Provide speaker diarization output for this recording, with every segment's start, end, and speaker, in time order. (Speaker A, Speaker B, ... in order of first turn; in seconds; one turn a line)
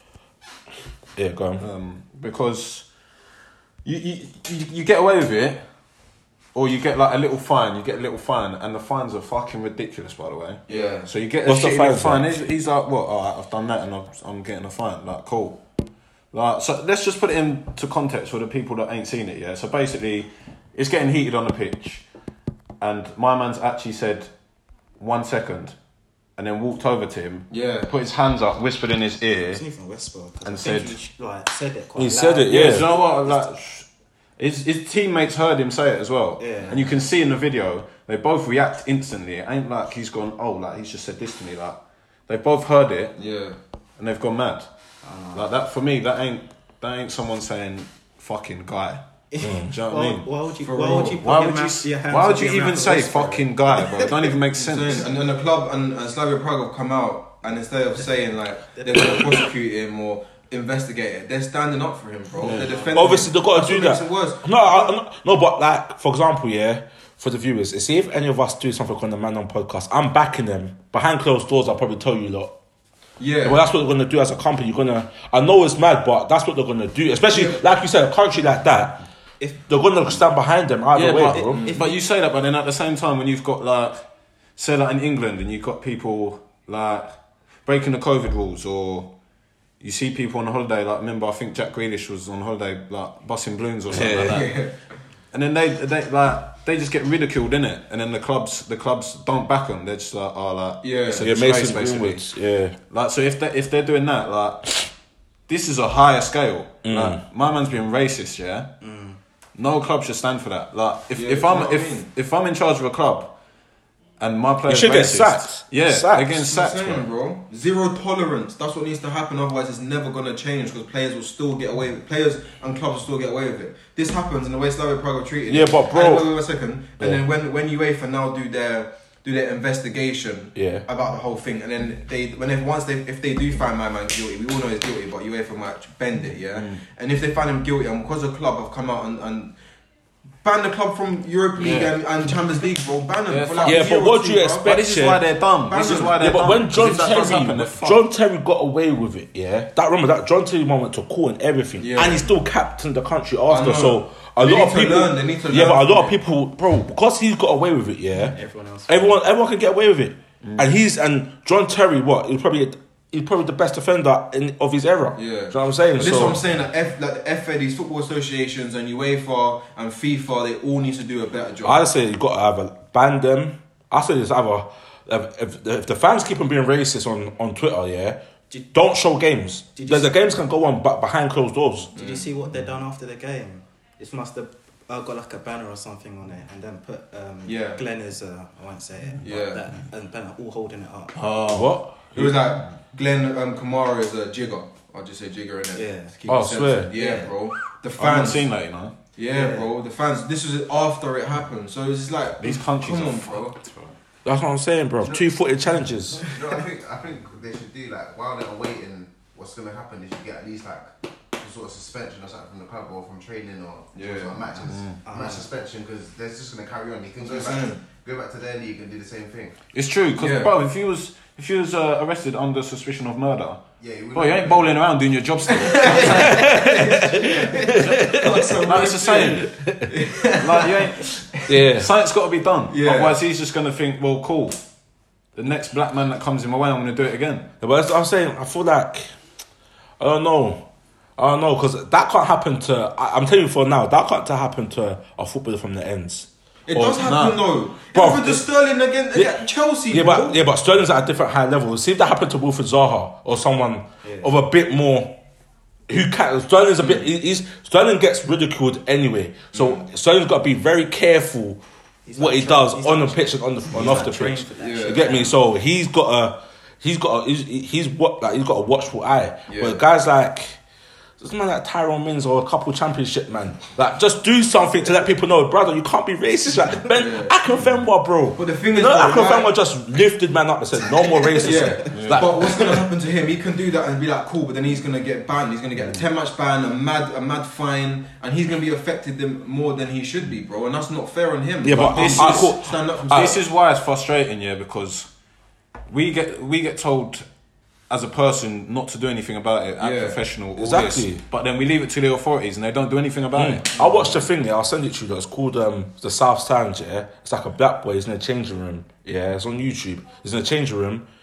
Speaker A: 1.1-1.6
Speaker B: 1.6-2.9
Speaker B: 3.8-5.6
Speaker B: 6.5-15.6
Speaker C: 10.7-11.1
Speaker A: 11.4-12.3
Speaker B: 16.3-22.0
Speaker B: 22.8-24.3
Speaker B: 25.0-25.8
Speaker B: 26.4-29.6
Speaker C: 27.5-27.9
Speaker D: 29.5-33.4
Speaker B: 30.4-30.9
Speaker A: 31.9-32.9
Speaker B: 32.4-43.1
Speaker D: 36.4-36.8
Speaker C: 43.1-43.6
Speaker B: 44.0-44.7
Speaker D: 45.0-45.5
Speaker B: 45.3-49.0
Speaker D: 49.3-54.2
Speaker A: 49.4-49.7
Speaker B: 49.7-50.2
Speaker C: 50.6-51.2
Speaker B: 51.2-55.1
Speaker C: 54.5-64.9
Speaker D: 58.7-59.4
Speaker B: 62.4-62.8
Speaker A: 62.9-72.5
Speaker C: 73.2-73.6
Speaker A: 73.4-79.0
Speaker C: 77.3-77.6
Speaker A: 79.6-81.6
Speaker B: 80.9-84.0
Speaker C: 81.5-81.8
Speaker D: 81.5-81.8
Speaker B: 84.5-87.1
Speaker B: 87.6-89.1
Speaker B: 89.8-94.5
Speaker A: 93.9-94.4
Speaker C: 94.2-94.7
Speaker B: 95.3-102.3
Speaker C: 100.8-101.3
Speaker A: 101.2-102.8
Speaker B: 102.9-104.8
Speaker B: 105.5-108.7
Speaker A: 106.8-107.2
Speaker D: 108.8-109.2
Speaker B: 109.5-113.3
Speaker C: 111.1-112.1
Speaker B: 114.2-117.0
Speaker A: 114.7-116.3
Speaker C: 116.3-139.5
Speaker A: 125.5-126.3
Speaker A: 130.5-130.8
Speaker B: 136.5-136.8
Speaker C: 140.4-144.7
Speaker B: 141.6-141.9
Speaker B: 143.3-143.9
Speaker A: 143.6-145.2
Speaker B: 144.6-148.0
Speaker C: 145.7-146.2
Speaker A: 145.9-166.4
Speaker C: 151.8-152.2
Speaker C: 153.5-156.2
Speaker D: 158.3-159.2
Speaker B: 160.4-160.7
Speaker C: 165.1-171.8
Speaker A: 171.6-178.2
Speaker A: 178.7-181.9
Speaker D: 179.8-180.1
Speaker C: 181.9-182.3
Speaker D: 181.9-191.2
Speaker C: 187.4-187.8
Speaker C: 189.2-189.6
Speaker B: 191.1-191.8
Speaker A: 191.5-192.4
Speaker C: 192.1-198.5
Speaker D: 195.7-196.2
Speaker A: 196.3-196.9
Speaker D: 196.9-197.3
Speaker B: 198.0-198.9
Speaker C: 199.2-203.5
Speaker D: 199.3-199.7
Speaker B: 202.4-203.9
Speaker A: 204.2-206.2
Speaker E: 206.2-219.6
Speaker C: 213.9-214.4
Speaker B: 214.7-214.9
Speaker D: 215.0-215.5
Speaker C: 217.2-217.8
Speaker B: 219.7-226.5
Speaker C: 220.2-220.5
Speaker E: 223.8-224.8
Speaker C: 225.6-231.1
Speaker A: 226.0-229.9
Speaker B: 228.6-229.5
Speaker B: 230.4-234.6
Speaker A: 231.5-231.9
Speaker C: 232.7-233.2
Speaker B: 235.3-237.5
Speaker A: 237.6-239.1
Speaker A: 240.0-240.6
Speaker A: 241.2-247.2
Speaker C: 246.7-250.4
Speaker B: 247.0-247.4
Speaker A: 247.9-248.4
Speaker A: 249.1-255.2
Speaker D: 254.0-254.3
Speaker A: 255.9-261.6
Speaker C: 259.5-259.8
Speaker D: 262.1-265.4
Speaker A: 262.1-270.6
Speaker C: 264.6-265.2
Speaker C: 269.5-269.8
Speaker A: 271.2-282.8
Speaker C: 276.9-277.3
Speaker C: 278.4-279.5
Speaker C: 281.4-293.4
Speaker B: 281.9-282.3
Speaker A: 291.6-293.4
Speaker B: 291.8-295.1
Speaker B: 295.9-297.2
Speaker B: 297.9-303.9
Speaker C: 299.8-300.2
Speaker A: 300.6-301.2
Speaker A: 303.3-311.1